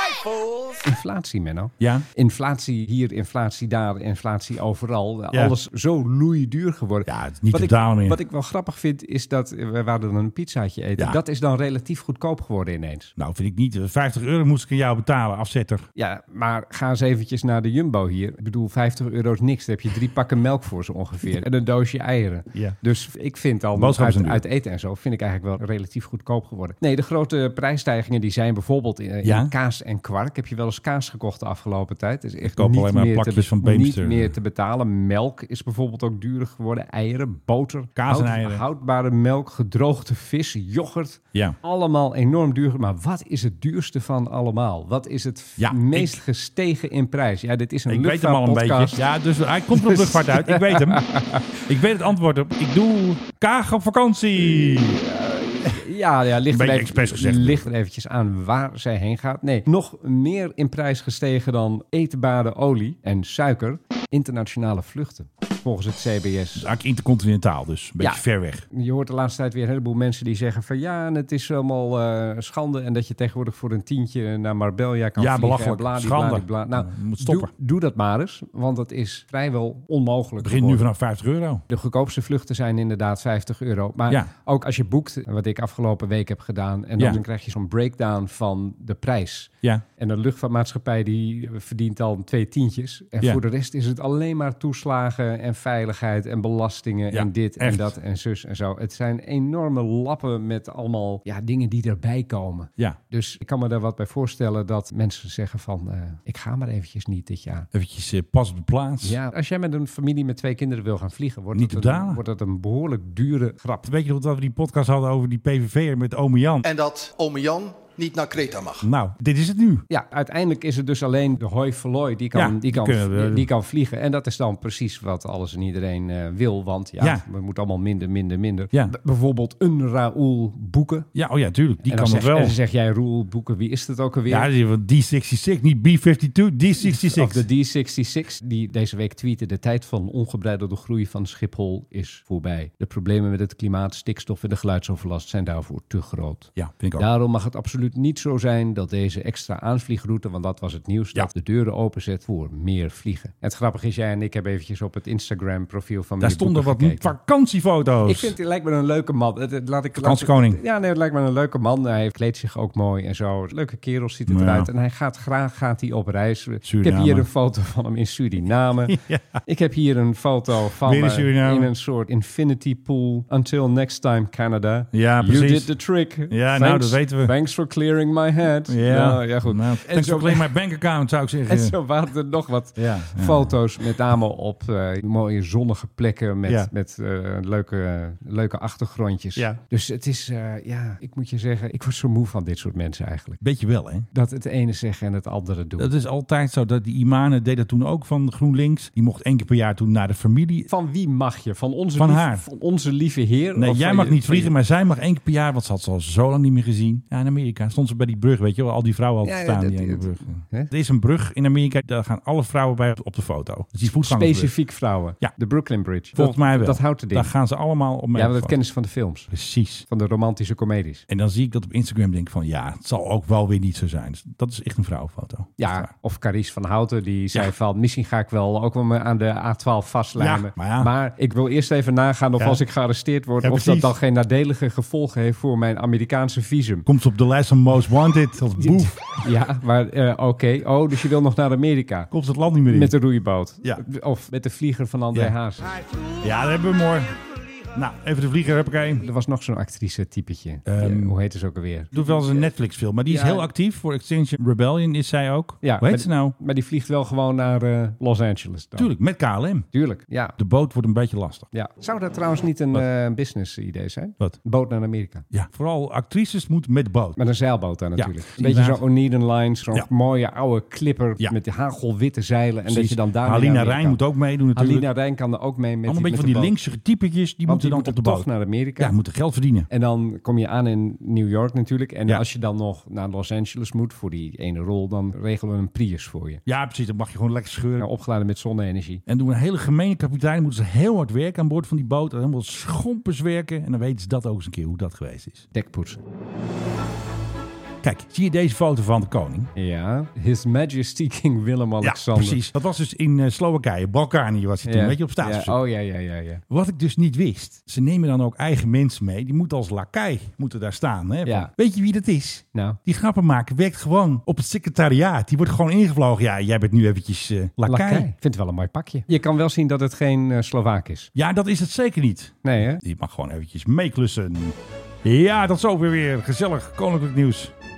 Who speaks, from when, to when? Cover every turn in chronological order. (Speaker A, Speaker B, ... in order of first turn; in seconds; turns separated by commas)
Speaker A: 0.8-13.1, Speaker B: 1.8-2.0, Speaker B: 7.0-8.2, Speaker B: 13.2-15.9, Speaker A: 16.0-49.0, Speaker B: 23.7-24.4, Speaker B: 29.2-29.5, Speaker B: 32.4-34.3, Speaker B: 38.0-38.6, Speaker B: 45.6-46.2, Speaker B: 47.9-55.0, Speaker A: 49.7-51.6, Speaker A: 54.4-66.7, Speaker B: 56.4-57.7, Speaker B: 66.6-68.6, Speaker A: 68.0-80.8, Speaker B: 75.2-77.5, Speaker B: 80.4-81.6, Speaker A: 81.7-107.7, Speaker B: 97.1-97.9, Speaker B: 107.7-109.2, Speaker A: 109.0-113.9, Speaker B: 111.5-112.2, Speaker B: 113.8-116.7, Speaker C: 116.6-118.9, Speaker B: 118.8-119.8, Speaker A: 119.9-131.1, Speaker B: 122.3-123.5, Speaker B: 131.1-132.6, Speaker A: 131.8-134.5, Speaker B: 134.3-137.4, Speaker A: 136.8-157.1, Speaker B: 146.6-147.1, Speaker B: 156.2-158.3, Speaker A: 158.0-180.5, Speaker B: 160.0-160.6, Speaker B: 164.3-164.7, Speaker B: 166.6-167.3, Speaker B: 168.9-169.4, Speaker B: 170.8-171.7, Speaker B: 174.9-175.7, Speaker B: 176.3-177.3, Speaker B: 178.7-181.8, Speaker A: 181.5-193.4, Speaker B: 182.8-183.6, Speaker B: 193.4-194.1, Speaker A: 194.1-195.9, Speaker B: 195.8-200.7, Speaker A: 200.7-204.5, Speaker B: 202.0-202.4, Speaker B: 203.6-214.5, Speaker A: 209.2-210.7, Speaker A: 214.0-217.3, Speaker B: 216.1-218.6, Speaker A: 218.1-219.3, Speaker B: 219.3-219.9, Speaker A: 219.9-221.0, Speaker B: 221.1-225.9, Speaker A: 225.6-236.9, Speaker B: 230.2-230.9, Speaker B: 233.4-233.9, Speaker B: 236.9-238.9, Speaker A: 238.6-242.1, Speaker B: 242.1-242.9, Speaker A: 242.7-245.8, Speaker B: 246.2-247.2, Speaker B: 247.7-249.0, Speaker A: 249.0-252.5, Speaker B: 250.7-251.1, Speaker B: 251.9-256.3, Speaker A: 253.1-253.5, Speaker A: 255.6-258.9, Speaker B: 258.8-259.7, Speaker A: 259.7-260.4, Speaker B: 260.4-261.5, Speaker A: 261.5-265.3, Speaker B: 265.3-267.2, Speaker A: 267.2-274.0, Speaker B: 267.9-268.8, Speaker B: 272.7-274.9, Speaker A: 274.5-276.5, Speaker B: 275.9-279.7, Speaker A: 277.4-278.9, Speaker A: 279.7-286.4, Speaker B: 286.4-287.9, Speaker A: 287.8-289.0, Speaker B: 289.1-295.5, Speaker A: 295.5-296.0, Speaker B: 297.8-299.5, Speaker A: 299.6-302.4, Speaker B: 301.8-305.6, Speaker A: 304.6-306.4, Speaker B: 306.5-318.1, Speaker A: 311.2-311.5, Speaker A: 317.6-321.1, Speaker B: 321.1-327.5, Speaker A: 322.4-322.8